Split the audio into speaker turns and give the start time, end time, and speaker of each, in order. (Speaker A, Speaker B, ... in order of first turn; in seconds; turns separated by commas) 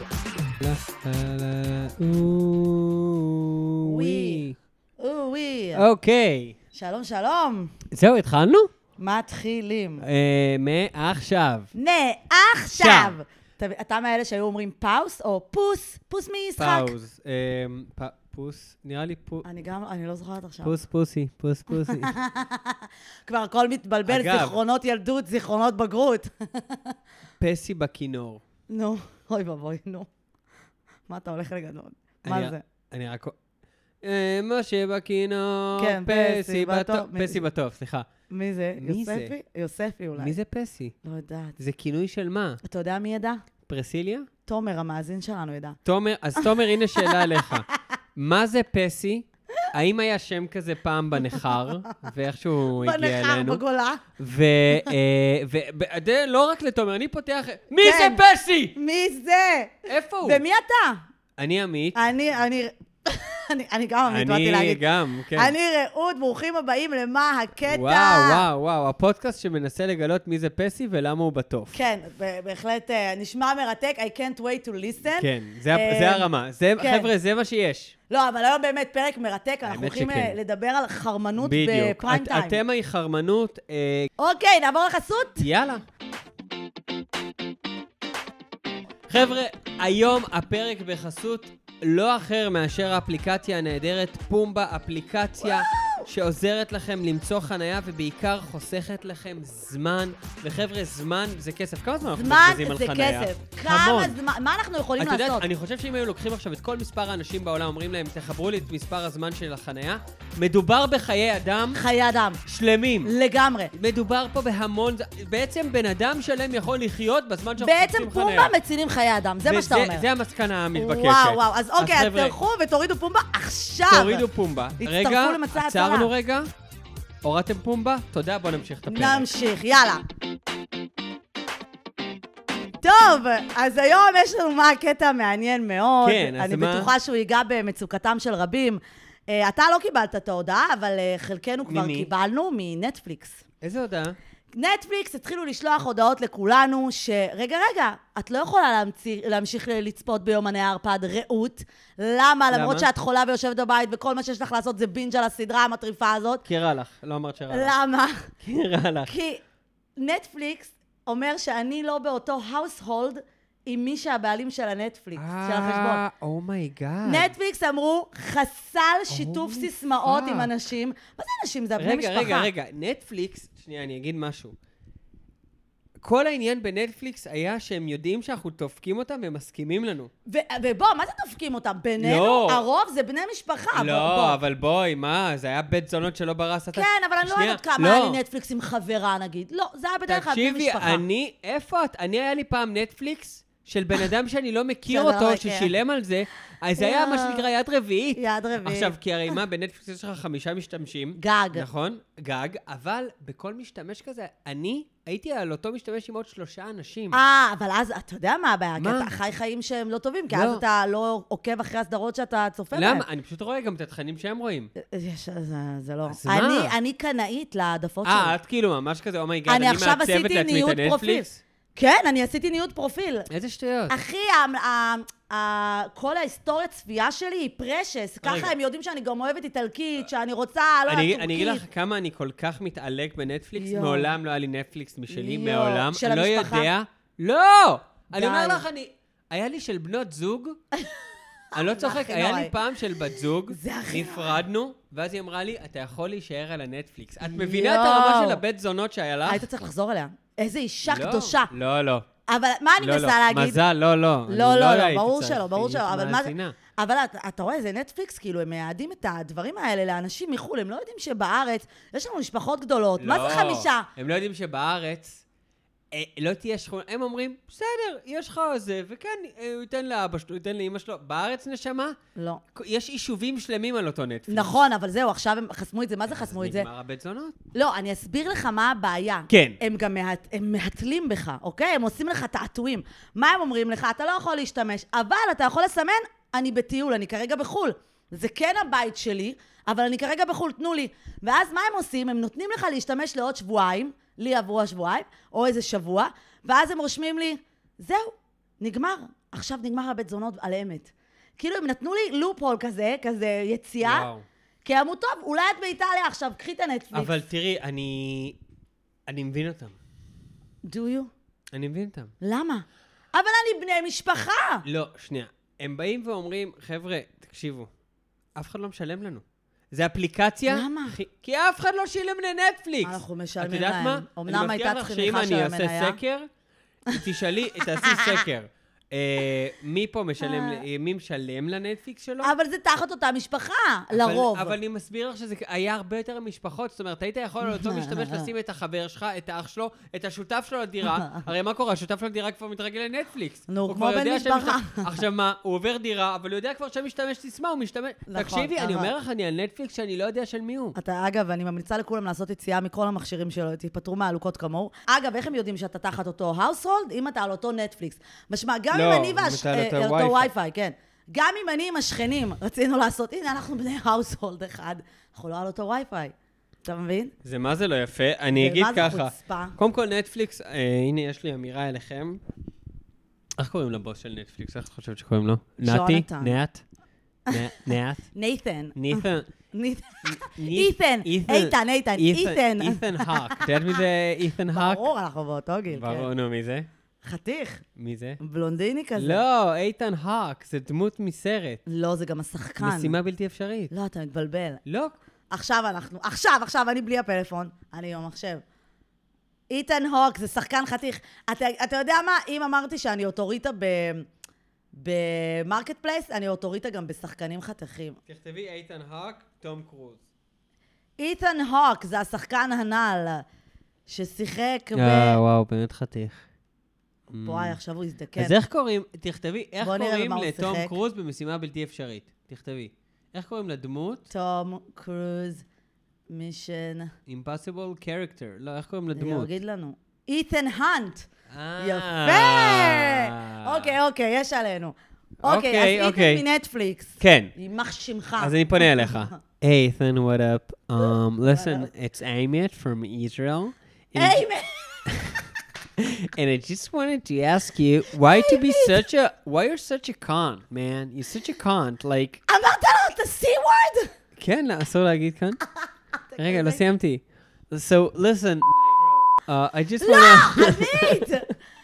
Speaker A: 0.6-4.6, Speaker B: 3.8-4.5, Speaker B: 5.0-5.8, Speaker A: 5.8-6.6, Speaker B: 6.7-7.7, Speaker A: 7.9-8.7, Speaker B: 9.0-10.1, Speaker A: 10.0-11.7, Speaker B: 11.7-16.9, Speaker A: 12.7-13.2, Speaker A: 16.6-19.4, Speaker B: 19.4-20.7, Speaker A: 20.6-22.1, Speaker B: 21.7-26.9, Speaker A: 24.1-24.6, Speaker A: 27.4-28.4, Speaker B: 28.7-30.1, Speaker B: 31.1-32.6, Speaker A: 32.2-33.4, Speaker A: 34.0-38.1, Speaker B: 35.8-37.4, Speaker B: 38.3-40.3, Speaker A: 38.8-39.3, Speaker A: 40.2-41.0, Speaker B: 41.0-41.5, Speaker A: 41.6-42.6, Speaker B: 42.6-43.4, Speaker A: 43.7-44.3, Speaker B: 44.5-45.8, Speaker A: 45.8-53.6, Speaker B: 46.4-47.8, Speaker B: 51.3-52.0, Speaker B: 52.8-54.0, Speaker A: 54.2-58.8, Speaker B: 57.8-58.2, Speaker B: 58.8-61.0, Speaker A: 59.9-60.4, Speaker A: 61.4-62.0, Speaker B: 61.9-64.8, Speaker A: 64.1-65.5, Speaker B: 65.3-68.4, Speaker A: 67.7-71.8, Speaker B: 71.7-77.1, Speaker A: 75.1-77.9, Speaker B: 78.1-82.6, Speaker A: 79.6-80.4, Speaker A: 81.4-84.1, Speaker B: 84.2-85.5, Speaker A: 85.4-85.8, Speaker A: 89.1-104.2, Speaker B: 95.4-96.1, Speaker B: 102.1-105.4, Speaker A: 105.0-111.8, Speaker B: 111.7-112.4, Speaker A: 112.5-113.1, Speaker B: 113.0-113.7, Speaker A: 113.7-118.5, Speaker B: 117.6-120.1, Speaker A: 119.4-122.3, Speaker B: 120.8-124.2, Speaker A: 123.9-126.5, Speaker B: 124.8-126.1, Speaker A: 127.2-129.3, Speaker B: 128.9-130.0, Speaker B: 132.8-143.4, Speaker A: 136.0-136.9, Speaker A: 141.7-142.1, Speaker A: 143.6-144.2, Speaker B: 144.5-156.4, Speaker A: 152.5-152.9, Speaker A: 156.5-157.7, Speaker B: 157.5-158.3, Speaker A: 158.4-159.1, Speaker B: 159.1-159.4, Speaker B: 160.0-166.0, Speaker A: 165.2-167.3, Speaker B: 167.0-172.5, Speaker A: 169.1-170.5, Speaker A: 171.8-174.5, Speaker A: 176.0-180.1, Speaker B: 180.3-184.4, Speaker A: 182.0-182.7, Speaker A: 183.7-188.2, Speaker B: 186.7-191.0, Speaker A: 190.1-207.2, Speaker B: 194.9-195.7, Speaker B: 196.8-197.4, Speaker B: 198.2-199.3, Speaker B: 201.2-201.7, Speaker B: 207.1-213.0, Speaker A: 208.8-209.1, Speaker A: 210.3-210.6, Speaker A: 212.7-214.7, Speaker B: 214.8-218.3, Speaker A: 216.1-216.7, Speaker A: 218.0-221.4, Speaker B: 219.5-223.3, Speaker A: 223.3-223.9, Speaker B: 223.9-231.6, Speaker A: 228.2-228.5, Speaker A: 230.9-240.6, Speaker B: 233.6-234.1, Speaker B: 235.1-236.7, Speaker B: 238.1-238.7, Speaker B: 241.5-244.4, Speaker A: 241.5-249.5, Speaker B: 247.2-248.4, Speaker B: 249.3-251.5, Speaker A: 250.9-252.1, Speaker B: 252.3-253.6, Speaker A: 252.8-256.6, Speaker B: 254.3-263.9, Speaker A: 263.0-265.2, Speaker A: 265.9-272.0, Speaker B: 272.2-272.4, Speaker A: 272.5-274.6, Speaker B: 274.3-276.7, Speaker A: 276.1-277.4, Speaker B: 277.5-304.1, Speaker A: 279.3-279.6, Speaker A: 303.8-304.3, Speaker B: 304.6-307.2, Speaker A: 306.9-308.4, Speaker A: 309.1-309.8, Speaker B: 310.6-311.1, Speaker A: 311.5-312.1, Speaker B: 312.2-314.6, Speaker A: 314.6-317.7, Speaker A: 318.4-326.3, Speaker B: 320.5-321.0, Speaker B: 322.8-326.0, Speaker A: 326.9-332.3, Speaker B: 326.9-328.2, Speaker B: 330.2-330.6, Speaker B: 332.2-334.6, Speaker A: 333.9-350.8, Speaker B: 337.4-338.3, Speaker B: 343.5-344.9, Speaker B: 348.1-348.9, Speaker B: 350.8-367.1, Speaker A: 358.7-360.3, Speaker A: 367.2-372.2, Speaker B: 368.3-369.6, Speaker A: 373.4-376.6, Speaker B: 375.6-376.4, Speaker A: 377.3-378.1, Speaker B: 377.3-377.6, Speaker B: 378.1-383.5, Speaker A: 378.8-379.3, Speaker A: 380.1-384.8, Speaker B: 384.5-386.1, Speaker A: 385.7-386.7, Speaker B: 387.0-387.6, Speaker A: 387.8-388.2, Speaker B: 388.2-389.2, Speaker A: 389.0-391.6, Speaker B: 391.7-392.9, Speaker A: 392.6-393.7, Speaker B: 393.7-394.6, Speaker A: 394.7-394.9, Speaker B: 395.3-398.4, Speaker B: 399.5-404.1, Speaker B: 404.7-408.0, Speaker A: 408.1-410.0, Speaker B: 411.0-413.2, Speaker B: 413.9-415.2, Speaker A: 414.8-416.2, Speaker A: 417.1-417.6, Speaker B: 417.2-418.4, Speaker A: 418.2-424.1, Speaker B: 419.6-420.7, Speaker B: 424.1-425.4, Speaker B: 426.1-426.9, Speaker A: 427.1-429.3, Speaker B: 428.9-431.1, Speaker A: 431.3-433.8, Speaker B: 431.6-439.1, Speaker A: 435.2-436.2, Speaker A: 437.0-437.3, Speaker A: 438.2-444.2, Speaker B: 440.8-441.7, Speaker B: 444.0-445.2, Speaker A: 444.9-445.2, Speaker A: 445.8-452.2, Speaker B: 448.0-448.8, Speaker B: 452.3-453.9, Speaker A: 454.2-455.4, Speaker B: 456.1-456.6, Speaker A: 456.2-461.2, Speaker B: 459.8-461.3